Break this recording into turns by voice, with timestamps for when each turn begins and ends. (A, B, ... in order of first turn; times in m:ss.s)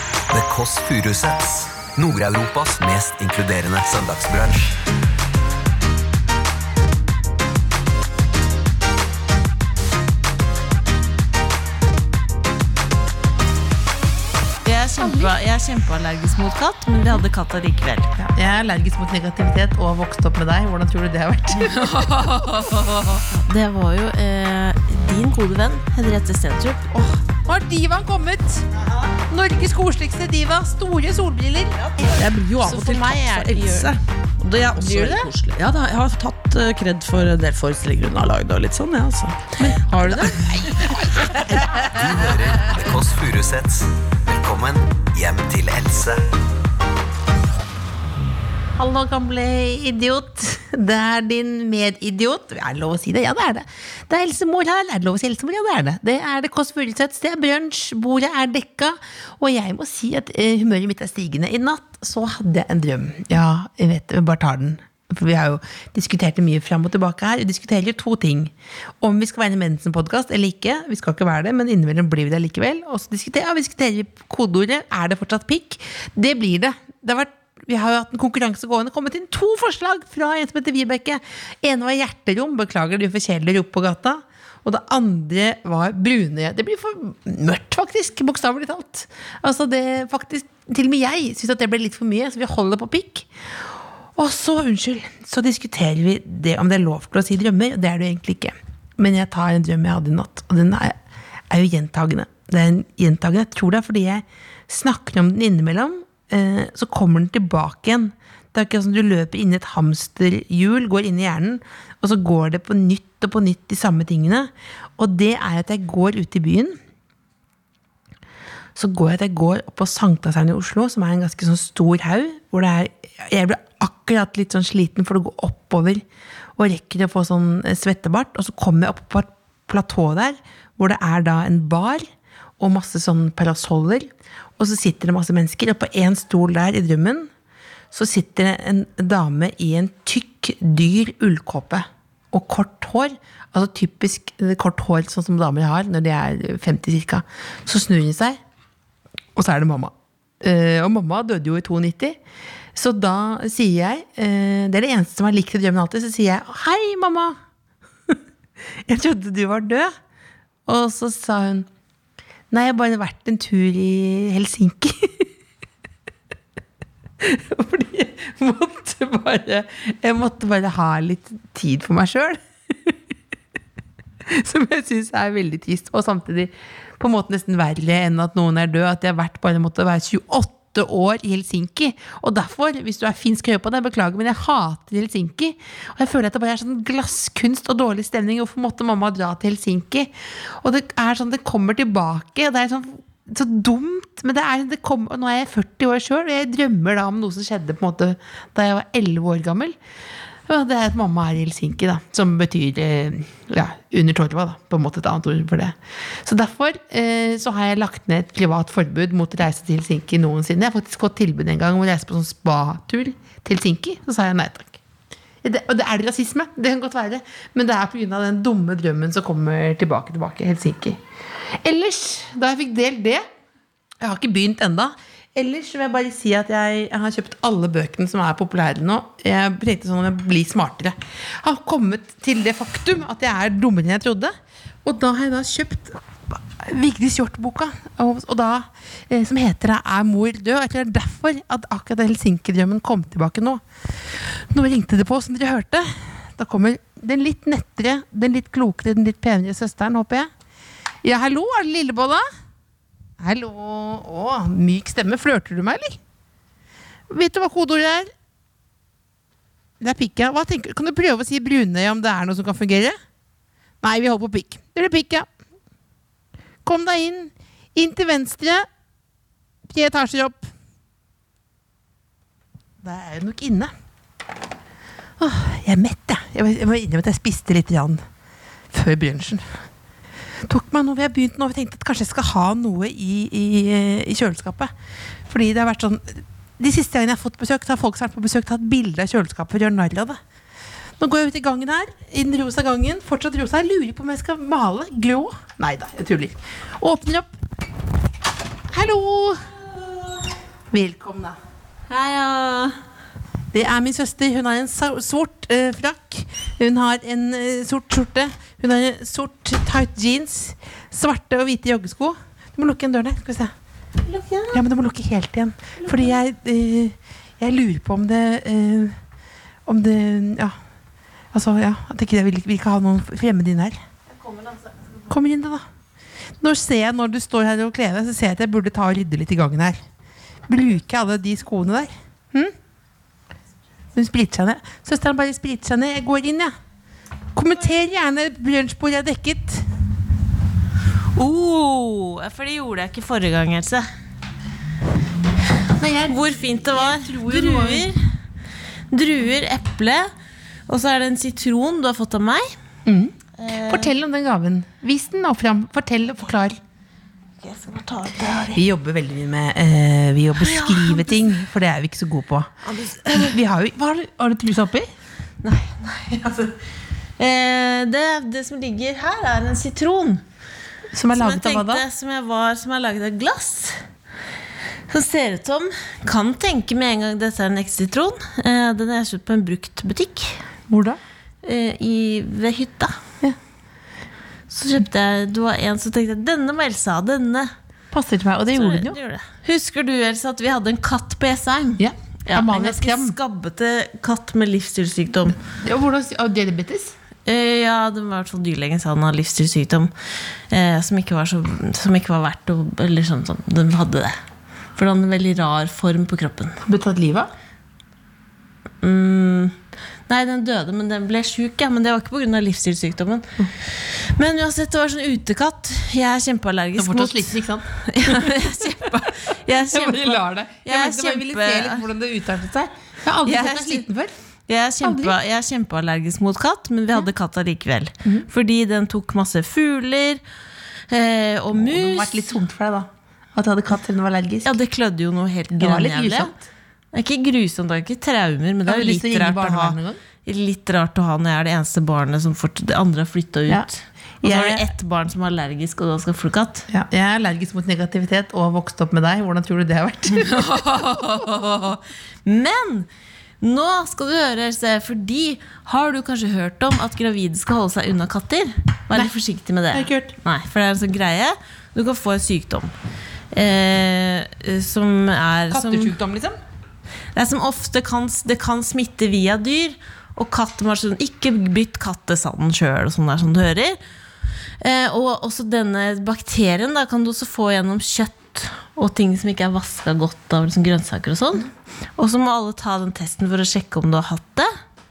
0:00.3-0:04.8 A
0:14.6-0:18.1 B
0:15.0-0:15.3 C
0:18.2-0:23.2 C
0:23.3-0:26.9 B
0:26.9-0:31.9 C
0:32.1-0:39.6 D
0:32.6-0:33.9 B
0:34.8-0:35.3 B
0:39.6-0:42.7 C
0:39.9-0:40.5 B
0:41.9-0:46.2 A
0:48.8-1:33.3 C
1:34.2-1:41.0 C
1:41.5-1:56.8 C
1:58.8-2:06.0 C
2:06.6-2:12.0 C
2:12.6-2:17.3 C
2:17.9-2:28.4 C
2:29.4-2:32.2 C
2:32.8-2:37.4 C
2:38.9-2:39.9 C
2:40.7-2:41.7 C
2:42.5-2:45.3 C
2:47.2-2:53.0 C
2:54.2-3:19.8 C
3:20.5-3:34.8 C
3:35.4-3:43.2 C
3:44.0-3:54.3 C
3:54.8-4:10.3 C
4:11.0-4:12.2 C
4:13.2-4:16.0 C
4:17.1-4:18.1 C
4:19.8-4:23.0 C
4:23.8-4:25.3 C
4:26.6-4:28.7 C
4:29.7-4:30.5 C
4:32.8-4:33.7 C
4:35.2-4:38.0 C
4:38.7-4:39.6 C
4:40.4-4:44.7 C
4:45.3-4:50.2 C
4:51.0-4:57.3 C
4:58.7-4:59.6 C
5:00.7-5:01.4 C
5:01.9-5:02.8 B
5:03.5-5:13.5 C
5:14.0-5:14.6 B
5:14.5-5:19.0 C
5:15.8-5:16.1 B
5:19.7-5:20.5 C
5:21.3-5:23.8 C
5:24.2-5:24.7 B
5:25.1-5:25.6 C
5:26.4-5:29.8 C
5:30.5-5:32.5 C
5:34.0-5:36.5 C
5:37.4-5:39.7 C
5:41.2-5:43.9 B
5:45.8-5:47.9 C
5:46.1-5:48.0 B
5:48.9-5:50.1 B
5:50.7-5:52.5 B
5:52.8-5:56.6 C
5:53.4-5:53.9 B
5:57.4-5:58.6 B
5:58.5-6:02.5 C
6:00.4-6:01.2 B
6:02.7-6:03.3 B
6:03.1-6:04.9 C
6:05.4-6:06.5 B
6:07.2-6:10.2 B
6:10.9-6:11.8 C
6:11.1-6:13.8 B
6:14.9-6:20.4 B
6:20.7-6:21.0 C
6:21.4-6:23.0 B
6:24.5-6:27.5 B
6:27.9-6:29.0 C
6:28.5-6:35.4 B
6:31.8-6:33.2 C
6:35.4-6:36.9 C
6:37.3-6:39.9 B
6:40.5-6:44.2 B
6:44.8-6:46.6 B
6:46.6-6:47.3 C
6:48.8-6:49.6 B
6:50.1-7:01.8 B
6:56.8-6:58.4 C
6:59.7-7:04.1 C
7:03.2-7:03.8 B
7:04.5-7:10.2 B
7:04.8-7:05.2 C
7:10.9-7:12.3 B
7:11.6-7:14.5 C
7:14.4-7:16.3 B
7:15.6-7:16.4 C
7:16.9-7:26.7 B
7:18.7-7:20.0 C
7:24.2-7:24.7 C
7:26.7-7:31.3 C
7:30.2-7:32.9 B
7:33.4-7:42.7 B
7:39.7-7:40.1 C
7:43.3-7:46.0 B
7:45.5-7:46.4 C
7:47.2-7:53.8 B
7:54.6-8:04.5 B